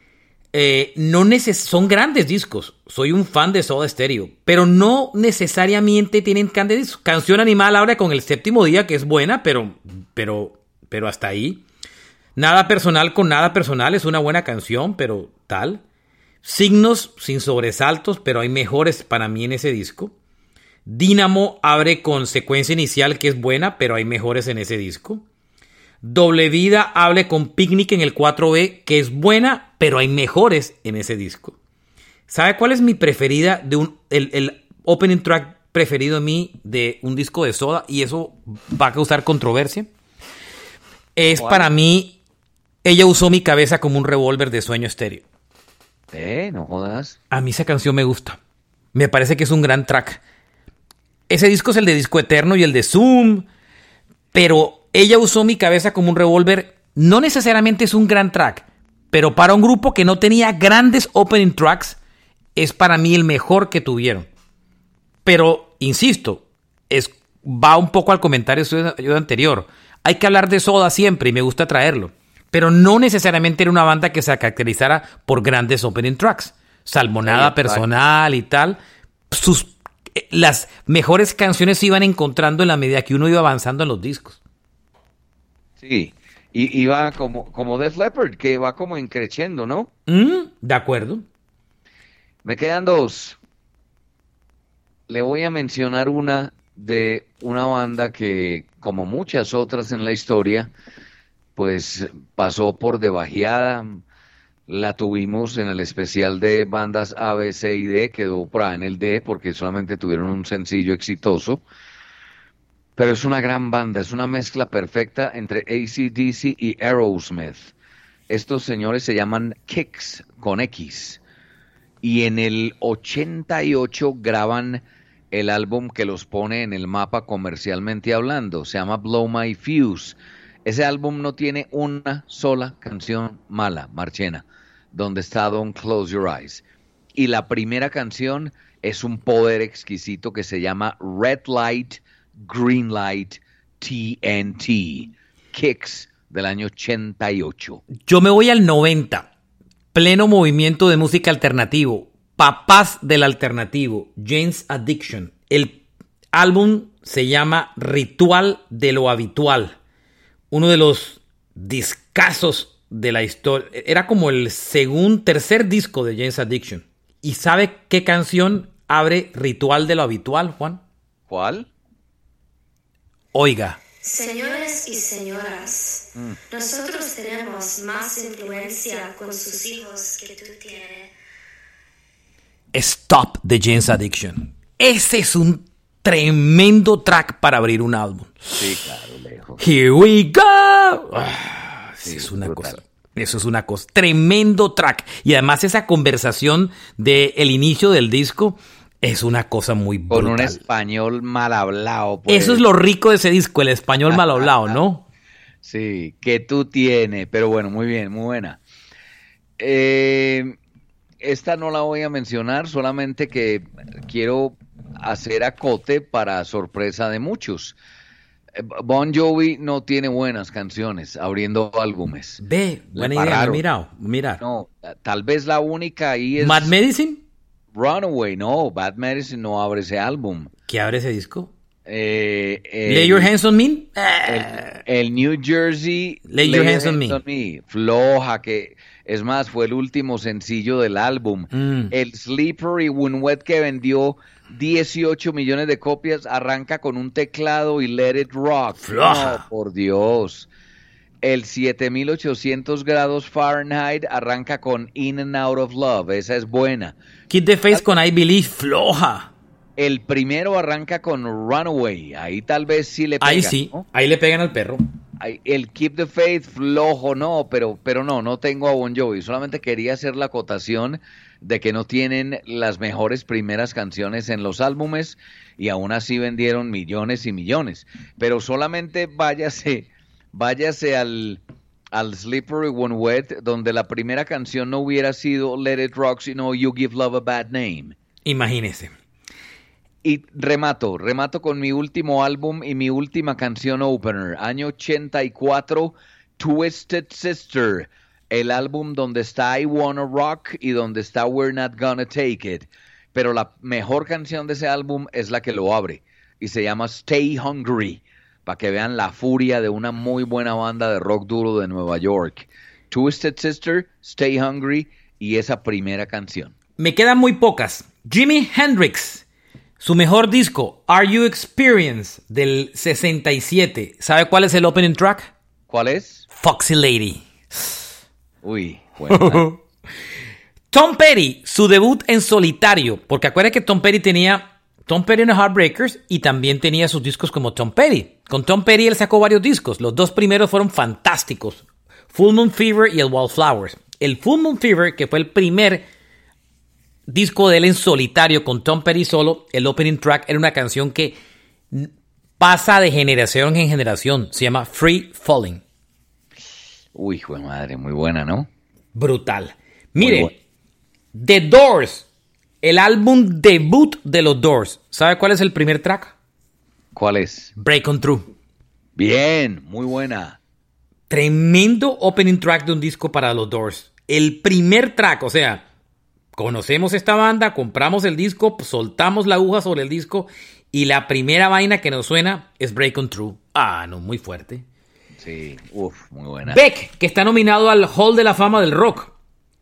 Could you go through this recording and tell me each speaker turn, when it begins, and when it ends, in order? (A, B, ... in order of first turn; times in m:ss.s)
0:00.5-0:11.6 A
0:12.4-0:15.8 A
0:16.4-0:20.1 A
0:20.9-0:25.2 A
0:26.0-0:31.6 A
0:32.3-0:39.9 A
0:41.2-0:42.2 A
0:41.3-0:41.7 B
0:42.8-0:45.2 A
0:46.1-0:47.2 B
0:47.3-0:48.4 A
0:48.9-0:50.2 A
0:51.3-0:53.5 A
0:54.3-1:02.0 A
1:02.6-1:04.3 A
1:05.2-1:18.8 A
1:17.2-1:17.8 B
1:19.3-1:24.4 A
1:25.8-1:29.9 B
1:30.1-1:31.2 A
1:32.4-1:33.4 B
1:35.1-1:40.7 B
1:41.6-1:44.0 B
1:44.7-1:51.6 B
1:53.0-1:57.7 B
1:58.3-2:01.2 B
2:02.0-2:16.6 B
2:17.2-2:27.8 B
2:28.0-2:29.3 A
2:29.9-2:35.8 A
2:36.3-2:39.8 A
2:40.5-2:50.8 A
2:51.3-2:51.7 B
2:53.3-2:53.8 A
2:54.0-3:01.1 C
3:02.7-3:08.6 A
3:08.6-3:09.6 B
3:09.6-3:20.6 A
3:12.0-3:12.8 B
3:20.1-3:22.6 B
3:22.3-3:25.0 A
3:24.1-3:24.8 B
3:25.6-3:28.6 B
3:29.6-3:30.6 B
3:31.2-3:37.7 B
3:38.6-3:42.4 B
3:42.4-3:44.4 A
3:42.9-3:43.6 B
3:44.4-3:46.7 B
3:46.4-3:47.2 A
3:47.7-3:50.5 B
3:50.7-3:51.5 A
3:51.9-3:53.3 B
3:52.9-3:54.8 A
3:54.3-4:10.5 B
3:56.3-3:57.2 A
4:01.5-4:01.9 A
4:08.8-4:09.4 A
4:11.2-4:17.0 B
4:17.3-4:19.3 A
4:19.8-4:23.8 B
4:23.2-4:24.8 A
4:25.2-4:41.4 B
4:41.9-4:48.0 B
4:48.2-4:48.9 A
4:50.0-5:16.6 B
5:16.8-5:19.2 A
5:19.8-5:25.3 A
5:25.7-5:26.3 B
5:26.4-5:27.3 A
5:28.4-5:29.5 B
5:29.1-5:29.6 A
5:30.7-5:45.9 A
5:47.1-5:51.2 A
5:51.7-5:55.6 A
5:56.9-5:58.5 B
5:59.0-6:00.3 A
6:00.0-6:00.3 B
6:01.1-6:02.0 A
6:02.6-6:06.1 A
6:07.0-6:07.5 B
6:07.6-6:08.3 A
6:09.0-6:10.4 B
6:11.1-6:15.6 A
6:16.4-6:24.6 A
6:25.2-6:26.6 B
6:26.5-6:29.1 A